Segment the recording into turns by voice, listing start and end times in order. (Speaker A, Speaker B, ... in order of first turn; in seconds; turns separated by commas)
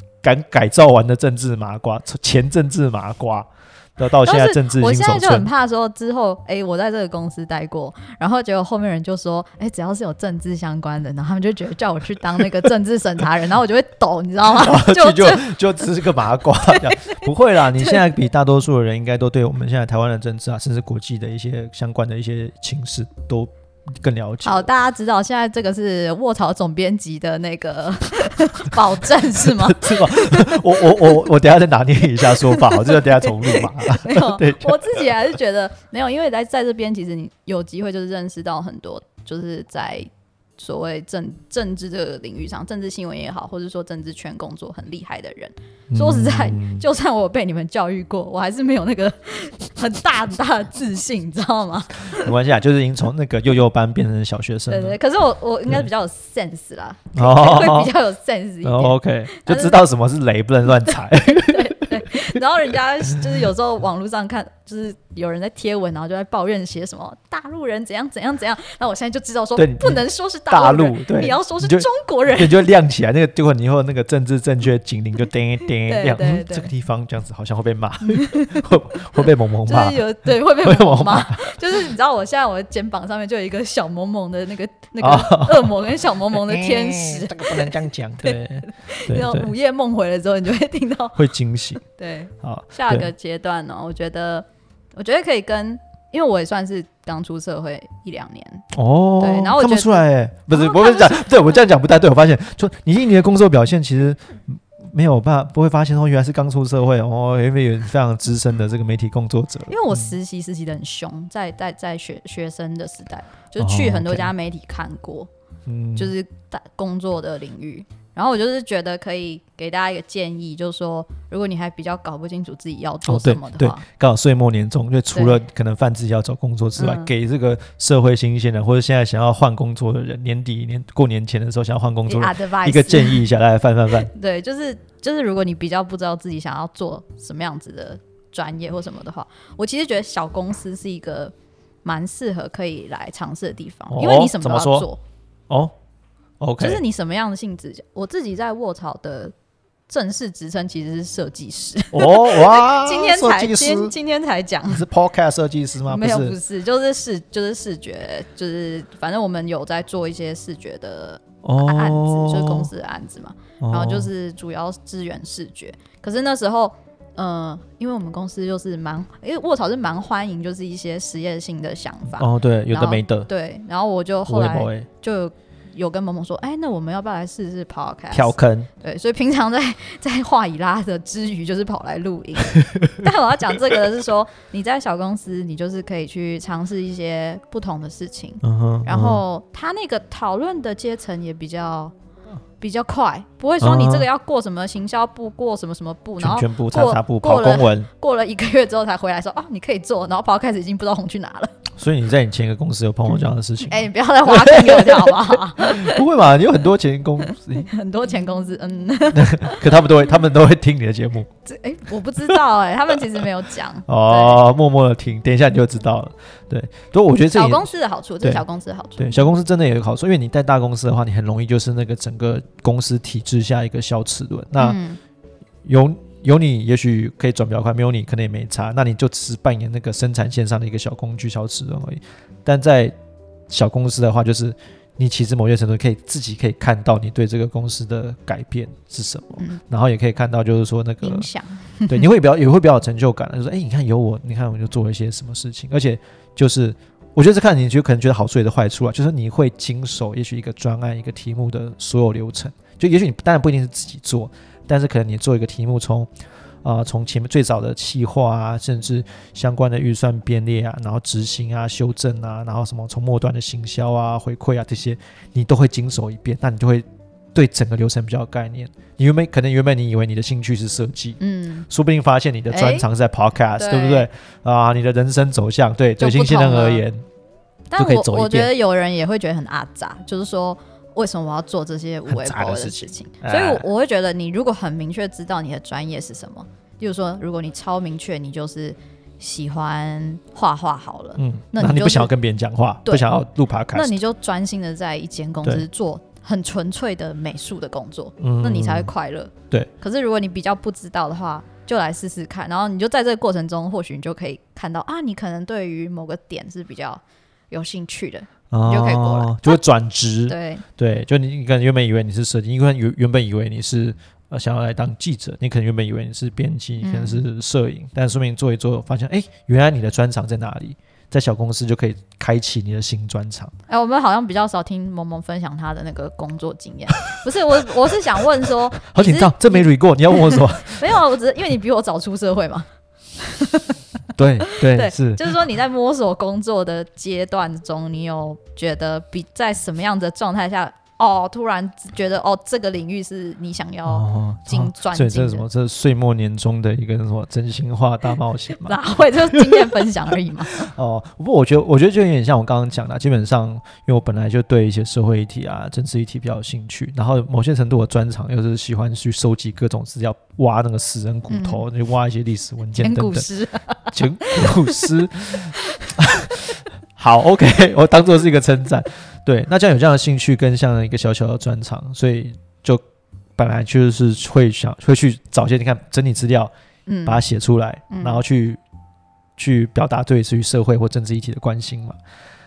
Speaker A: 0.2-5.5, Speaker B: 4.2-15.6, Speaker A: 14.5-24.7, Speaker B: 16.6-18.0, Speaker B: 24.4-31.2, Speaker A: 29.4-35.1, Speaker B: 32.2-52.3, Speaker A: 45.9-46.8, Speaker A: 52.1-55.0, Speaker B: 54.7-59.8, Speaker A: 57.1-57.9, Speaker A: 58.6-62.4, Speaker B: 61.1-72.6, Speaker A: 69.6-81.6, Speaker B: 75.8-76.7, Speaker B: 78.0-91.2, Speaker A: 85.0-89.5, Speaker A: 91.2-91.8, Speaker B: 91.8-98.7, Speaker A: 92.4-93.1, Speaker A: 98.7-110.1, Speaker B: 99.2-101.6, Speaker B: 109.7-115.3, Speaker A: 113.6-114.3, Speaker A: 115.7-116.1, Speaker B: 116.0-123.8, Speaker A: 123.0-134.1, Speaker B: 125.1-125.4, Speaker B: 126.8-127.1, Speaker B: 132.1-133.2, Speaker B: 134.0-141.3, Speaker B: 141.8-145.0, Speaker A: 143.9-144.9, Speaker A: 145.5-145.7, Speaker A: 146.4-146.8, Speaker B: 146.6-149.3, Speaker B: 149.9-154.8, Speaker A: 151.9-153.9, Speaker A: 154.7-156.3, Speaker B: 155.9-191.9, Speaker A: 161.4-162.7, Speaker A: 163.6-164.1, Speaker A: 172.2-173.3, Speaker A: 174.3-174.9, Speaker A: 178.1-178.7, Speaker A: 182.5-182.9, Speaker A: 188.4-189.2, Speaker B: 192.6-201.5, Speaker A: 193.6-194.1, Speaker A: 196.2-197.9, Speaker A: 201.8-207.7, Speaker B: 203.6-206.0, Speaker B: 207.3-209.9, Speaker A: 209.1-211.3, Speaker B: 211.4-214.5, Speaker A: 213.9-217.7, Speaker B: 217.3-219.3, Speaker A: 219.0-224.8, Speaker B: 224.6-225.0, Speaker A: 225.6-232.9, Speaker A: 233.5-241.3, Speaker B: 241.0-242.1, Speaker A: 241.9-256.1, Speaker A: 256.6-277.0, Speaker B: 271.2-271.7, Speaker B: 272.5-272.9, Speaker B: 273.5-274.1, Speaker B: 276.0-276.8, Speaker B: 277.7-292.1, Speaker A: 277.8-278.5, Speaker A: 282.1-283.6, Speaker A: 291.2-293.9, Speaker B: 293.7-309.6, Speaker A: 298.2-298.9, Speaker A: 308.5-323.5, Speaker B: 310.3-310.6, Speaker B: 316.8-317.2, Speaker B: 323.7-332.7, Speaker A: 328.8-330.9, Speaker B: 333.2-333.7, Speaker A: 334.1-335.4, Speaker B: 334.4-345.4, Speaker A: 343.9-363.2, Speaker B: 348.6-350.7, Speaker B: 361.3-361.6, Speaker B: 362.7-364.9, Speaker A: 363.9-372.8, Speaker B: 365.6-365.9, Speaker A: 373.4-376.5, Speaker B: 376.9-377.2, Speaker A: 377.1-378.6, Speaker B: 377.9-378.2, Speaker A: 379.4-382.0